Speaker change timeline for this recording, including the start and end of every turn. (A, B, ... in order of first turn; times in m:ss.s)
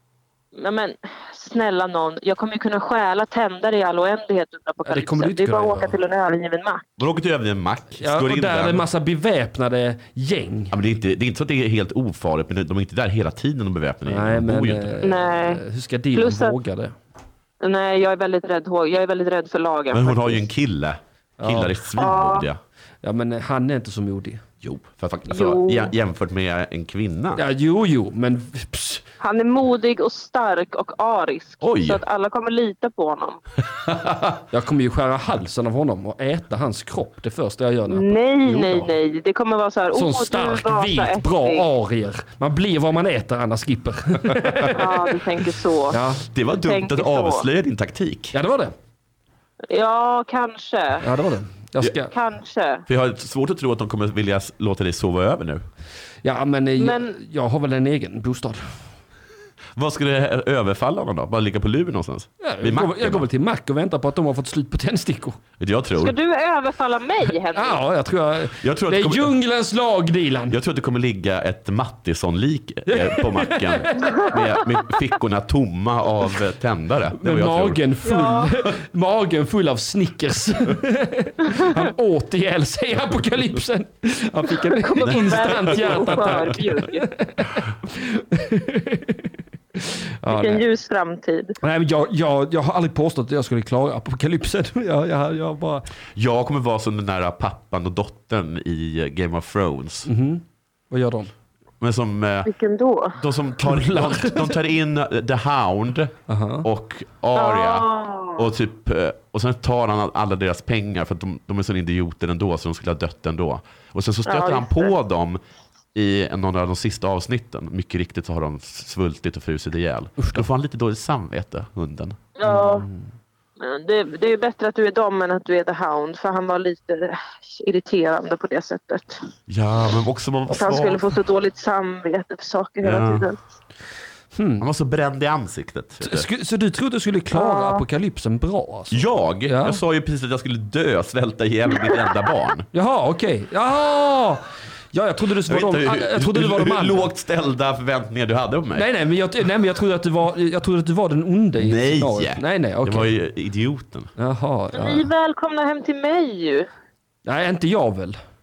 0:00.6-0:06.8 A
0:04.9-0:06.0 B
0:07.0-0:08.8 C
0:08.0-0:10.8 B
0:10.7-0:15.0 C
0:14.1-0:17.0 B
0:15.0-0:15.6 A
0:16.2-0:16.6 A
0:17.6-0:20.4 A
0:19.9-0:22.6 C
0:21.4-0:21.8 B
0:22.0-0:22.5 A
0:23.0-0:24.5 B
0:24.6-0:27.4 C
0:25.3-0:25.9 A
0:27.4-0:29.0 B
0:29.2-0:33.4 A
0:31.6-0:32.0 C
0:33.7-0:34.4 C
0:34.5-0:38.9 B
0:37.9-0:41.7 A
0:39.9-0:45.1 B
0:44.4-0:44.8 C
0:44.7-0:46.0 A
0:45.9-0:46.3 B
0:46.3-0:48.4 C
0:46.6-0:47.5 A
0:48.3-0:48.7 B
0:49.7-0:51.1 A
0:51.0-0:52.1 B
0:52.1-0:52.8 A
0:52.9-0:55.6 C
0:56.2-0:58.6 B
0:56.8-0:57.1 A
0:59.8-1:03.3 C
1:02.4-1:05.4 B
1:05.6-1:06.2 C
1:06.0-1:07.8 A
1:07.3-1:10.6 B
1:08.6-1:09.3 C
1:10.5-1:17.8 C
1:12.9-1:14.4 B
1:17.2-1:30.6 B
1:18.0-1:18.6 A
1:24.8-1:27.1 A
1:25.0-1:26.4 C
1:30.3-1:31.6 A
1:31.6-1:35.9 B
1:36.2-1:40.1 C
1:40.0-1:41.3 B
1:41.8-1:42.5 C
1:42.5-1:43.2 A
1:43.2-1:55.4 C
1:43.7-1:44.6 B
1:46.3-1:46.7 B
1:47.4-1:48.5 A
1:54.3-1:54.9 A
1:56.0-2:02.2 C
2:00.2-2:00.4 B
2:02.4-2:02.8 A
2:02.4-2:03.1 B
2:03.6-2:09.3 A
2:09.5-2:11.1 C
2:10.5-2:13.4 A
2:12.8-2:13.3 C
2:14.4-2:14.7 B
2:14.6-2:16.3 C
2:16.0-2:19.8 B
2:17.3-2:17.8 A
2:18.9-2:22.7 C
2:22.7-2:27.1 B
2:25.5-2:28.9 C
2:28.7-2:33.1 B
2:31.6-2:34.1 C
2:34.2-2:35.1 B
2:34.7-2:36.7 A
2:37.3-2:38.2 B